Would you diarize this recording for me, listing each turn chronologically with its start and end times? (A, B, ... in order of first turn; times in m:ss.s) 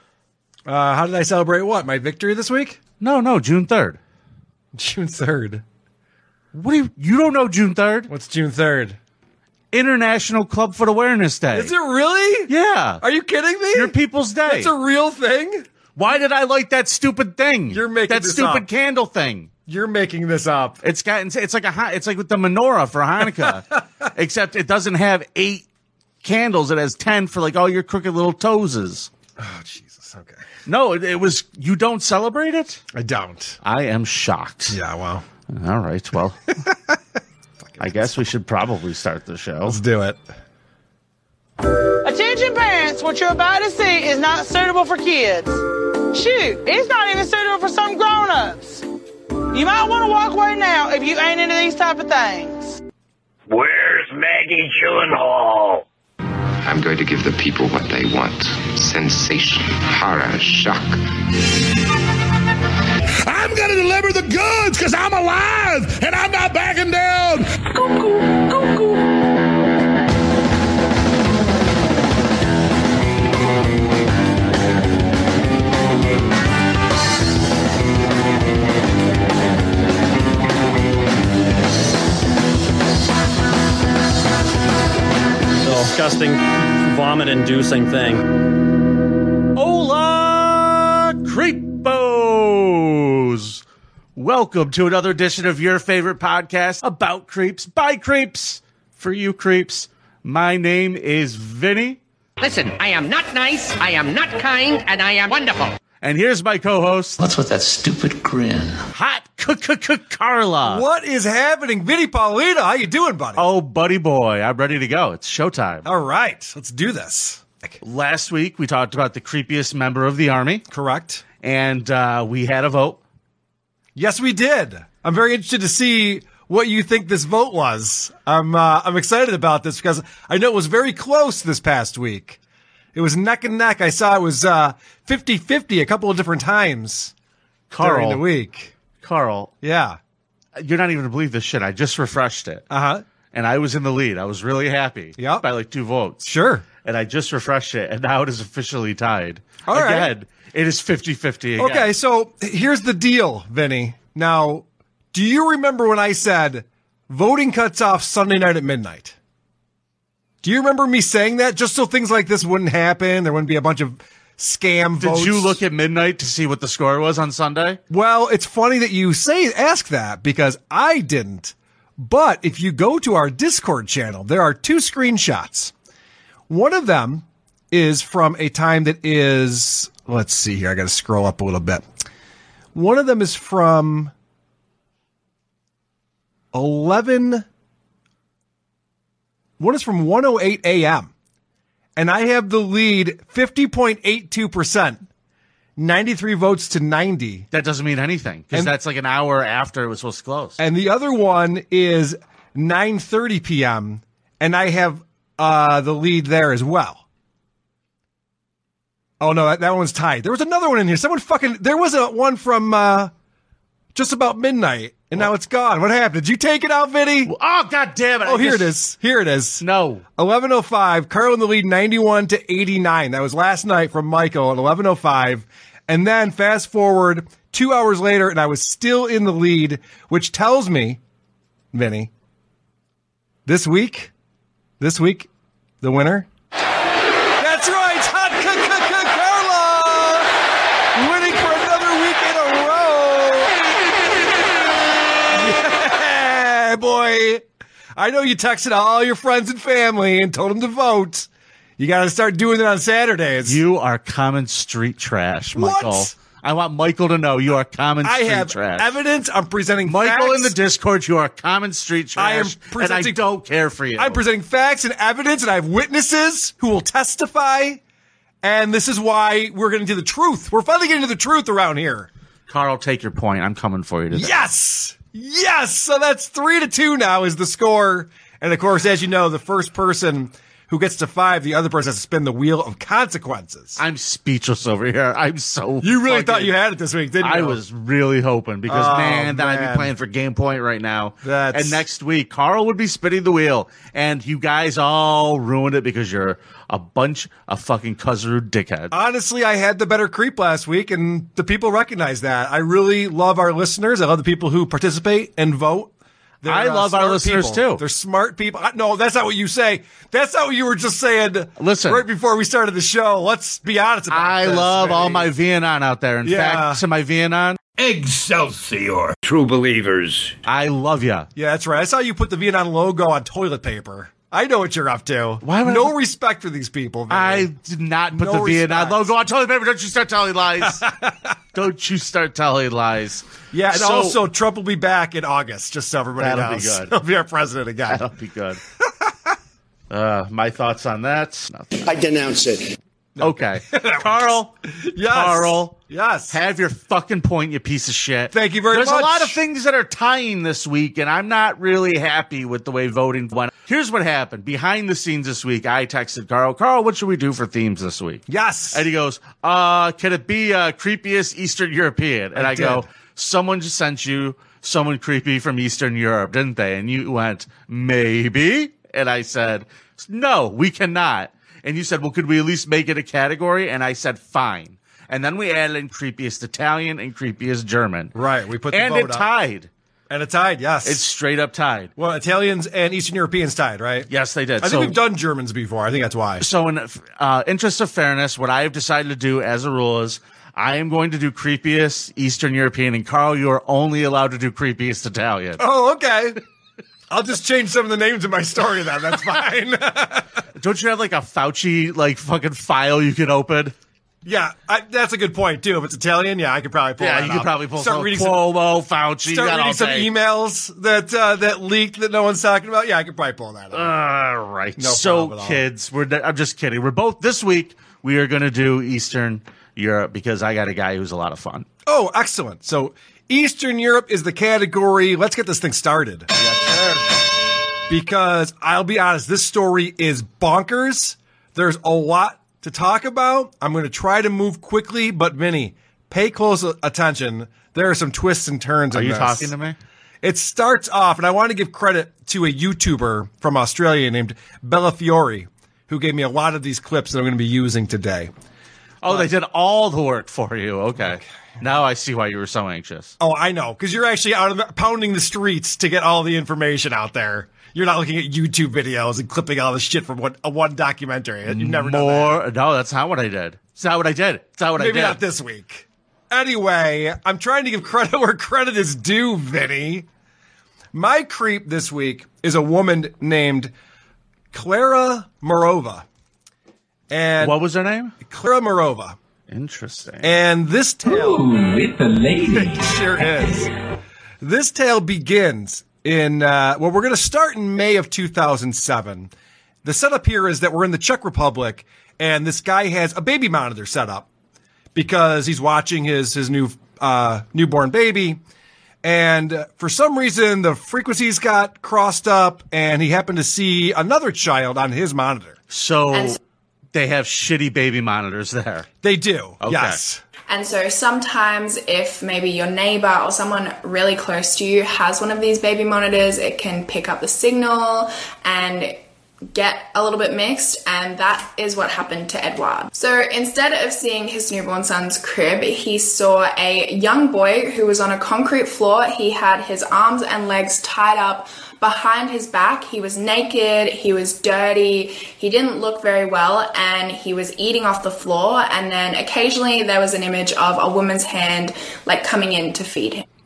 0:00.7-0:02.8 A
0:03.0-0:04.0 B
0:04.7-0:05.6 A
0:06.5-0:08.1 B
0:08.1-0:09.0 A
0:09.7-0:11.7 B
0:11.5-0:12.5 A
0:12.5-0:13.0 B
0:13.0-0:14.0 A
0:13.7-0:14.7 B
0:14.5-0:15.7 A
0:16.0-0:19.5 B
0:17.7-0:18.7 A
0:19.7-0:20.8 A
0:20.8-0:25.7 B
0:23.5-0:23.8 A
0:26.2-0:29.1 B
0:29.4-0:30.4 A
0:30.7-0:32.8 B
0:32.9-0:33.6 A
0:33.6-0:34.8 B
0:34.7-0:35.2 A
0:35.5-0:36.4 B
0:36.6-0:37.0 A
0:37.6-0:38.2 A
0:37.8-0:39.8 B
0:39.6-0:40.2 A
0:42.0-0:48.8 C
0:49.5-0:52.8 C
0:53.5-0:55.8 D
0:56.6-1:01.0 E
1:03.2-1:08.8 F
1:25.6-1:28.2 G
1:29.6-1:33.6 B
1:34.2-1:42.0 B
1:42.4-1:45.8 H
1:46.0-1:47.2 B
1:47.2-1:48.8 I
1:48.9-1:50.8 B
1:50.7-1:53.5 A
1:53.4-1:55.9 B
1:55.8-1:57.8 A
1:57.8-2:00.6 B
2:00.7-2:01.2 A
2:01.4-2:03.0 B
2:04.0-2:12.4 A
2:12.9-2:17.1 A
2:17.7-2:18.2 B
2:17.8-2:18.7 A
2:19.0-2:19.5 B
2:19.6-2:20.0 A
2:20.6-2:22.6 B
2:22.7-2:23.0 A
2:23.3-2:26.3 B
2:25.2-2:25.4 A
2:26.2-2:26.6 A
2:26.8-2:31.9 B
2:29.7-2:30.1 A
2:31.6-2:39.2 A
2:40.4-2:45.6 A
2:45.0-2:47.8 B
2:47.9-2:55.7 A
2:56.5-3:01.9 A
3:02.8-3:04.1 A
3:06.5-3:07.4 A
3:09.6-3:11.1 A
3:12.0-3:15.1 A
3:15.8-3:17.5 A
3:17.5-3:20.6 B
3:20.6-3:27.0 A
3:29.2-3:33.1 A
3:34.0-3:37.3 A
3:37.3-3:38.8 B
3:38.2-3:39.6 A
3:39.6-3:40.0 B
3:40.2-3:51.0 A
3:51.7-3:52.1 A
3:53.5-3:54.1 A
3:54.8-3:55.3 A
3:55.8-3:56.3 A
3:57.4-4:00.3 A
4:01.0-4:03.5 A
4:05.3-4:07.4 A
4:08.0-4:13.6 A
4:13.5-4:19.0 B
4:15.5-4:16.1 A
4:18.0-4:20.5 A
4:19.9-4:24.2 B
4:22.2-4:23.2 A
4:24.0-4:27.8 A
4:28.4-4:32.1 A
4:32.5-4:34.3 B
4:34.1-4:43.8 A
4:43.8-4:46.6 B
4:45.8-4:47.6 A
4:47.2-4:58.9 B
4:48.7-4:49.9 A
4:51.2-4:51.8 A
4:58.9-5:15.3 A
5:06.5-5:07.8 B
5:11.6-5:12.0 B
5:14.1-5:17.6 B
5:16.2-5:16.8 A
5:20.4-5:21.3 B
5:21.4-5:27.5 A
5:25.4-5:26.0 B
5:27.1-5:30.8 B
5:28.1-5:29.1 A
5:30.6-5:31.3 A
5:31.5-5:34.2 B
5:33.5-5:38.0 A
5:36.2-5:37.0 B
5:37.9-5:38.6 B
5:39.9-5:41.9 B
5:43.2-5:46.4 A
5:43.2-5:44.5 B
5:45.0-5:45.8 B
5:46.3-6:18.1 B
5:48.3-5:49.4 A
5:58.3-5:58.8 A
6:02.4-6:02.8 A
6:18.2-6:19.3 A
6:18.7-6:19.7 B
6:20.1-6:21.0 A
6:20.8-6:21.9 B
6:22.0-6:24.1 A
6:24.1-6:25.0 B
6:24.6-6:26.4 A
6:26.4-6:35.6 B
6:35.6-6:36.4 A
6:37.1-6:40.3 A
6:40.6-6:43.8 B
6:44.2-6:48.4 A
6:47.0-6:50.1 B
6:49.3-6:53.9 A
6:53.7-7:01.7 B
6:54.8-6:55.6 A
7:01.9-7:06.3 A
7:06.4-7:07.1 B
7:07.9-7:19.5 A
7:18.9-7:19.8 B
7:20.2-7:28.3 A
7:29.0-7:33.2 B
7:33.2-7:42.4 A
7:41.5-7:45.2 B
7:44.8-7:50.1 A
7:50.9-7:53.7 A
7:54.5-7:56.0 A
7:57.1-7:57.6 A
7:57.4-7:58.2 B
7:58.2-7:59.2 A
7:59.5-8:00.3 B
8:00.2-8:01.5 A
8:01.1-8:02.8 I
8:02.4-8:03.7 A
8:04.4-8:09.3 A
8:09.8-8:14.3 A
8:14.9-8:18.4 A
8:19.0-8:25.6 A
8:25.7-8:26.4 B
8:26.9-8:28.9 B
8:29.0-8:30.2 A
8:29.6-8:30.0 B
8:30.5-8:39.0 J
8:39.5-9:03.2 J